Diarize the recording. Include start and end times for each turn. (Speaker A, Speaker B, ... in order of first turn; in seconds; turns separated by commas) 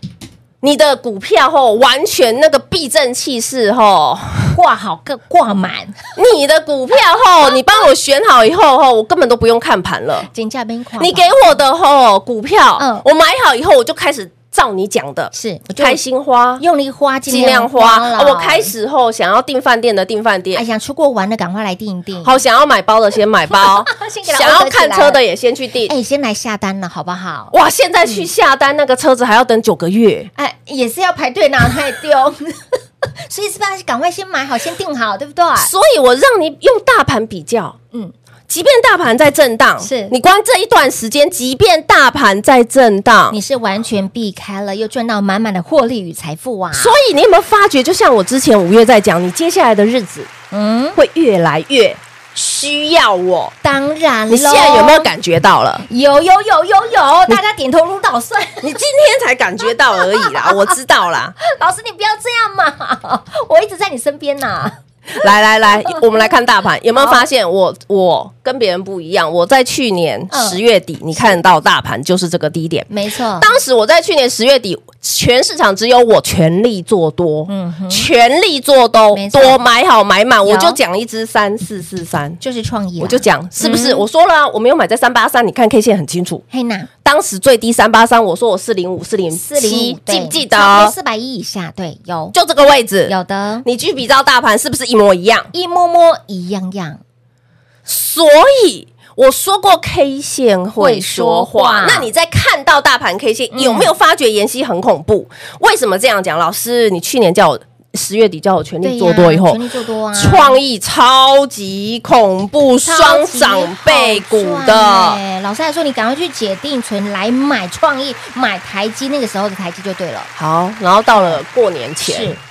Speaker A: 0.6-4.6, Speaker B: 4.5-6.0, Speaker A: 6.2-10.3, Speaker B: 10.3-11.6, Speaker A: 11.0-16.6, Speaker B: 12.8-13.0, Speaker B: 15.3-16.0, Speaker B: 16.6-18.7, Speaker A: 17.3-20.6, Speaker B: 20.5-22.4, Speaker A: 22.2-25.9, Speaker B: 23.6-25.2, Speaker B: 25.9-27.5, Speaker A: 27.5-30.3, Speaker B: 30.4-32.8, Speaker B: 33.3-35.7, Speaker A: 35.6-37.8, Speaker A: 38.5-43.4, Speaker B: 39.8-40.1, Speaker B: 43.3-47.0, Speaker A: 46.7-50.3, Speaker B: 50.5-51.0, Speaker A: 51.0-53.5, Speaker B: 53.6-55.1, Speaker A: 54.3-55.8, Speaker B: 55.9-58.8, Speaker A: 58.6-61.3, Speaker B: 60.0-60.7, Speaker B: 61.4-64.8, Speaker A: 65.1-82.4, Speaker B: 66.9-67.3, Speaker B: 70.3-70.6, Speaker B: 72.9-73.5, Speaker B: 77.5-78.1, Speaker B: 79.1-79.6, Speaker B: 80.5-80.8, Speaker B: 82.4-84.0, Speaker A: 83.0-86.4, Speaker B: 86.5-86.9, Speaker A: 87.0-90.9, Speaker B: 89.3-92.3, Speaker A: 92.3-93.1, Speaker B: 93.1-93.7, Speaker A: 93.6-95.5, Speaker B: 95.5-97.0, Speaker A: 97.8-109.6, Speaker B: 100.8-102.1, Speaker B: 103.5-103.9, Speaker B: 108.8-110.6, Speaker A: 110.1-115.2, Speaker B: 112.8-120.3, Speaker A: 120.3-122.3, Speaker B: 121.1-121.4, Speaker B: 122.0-122.4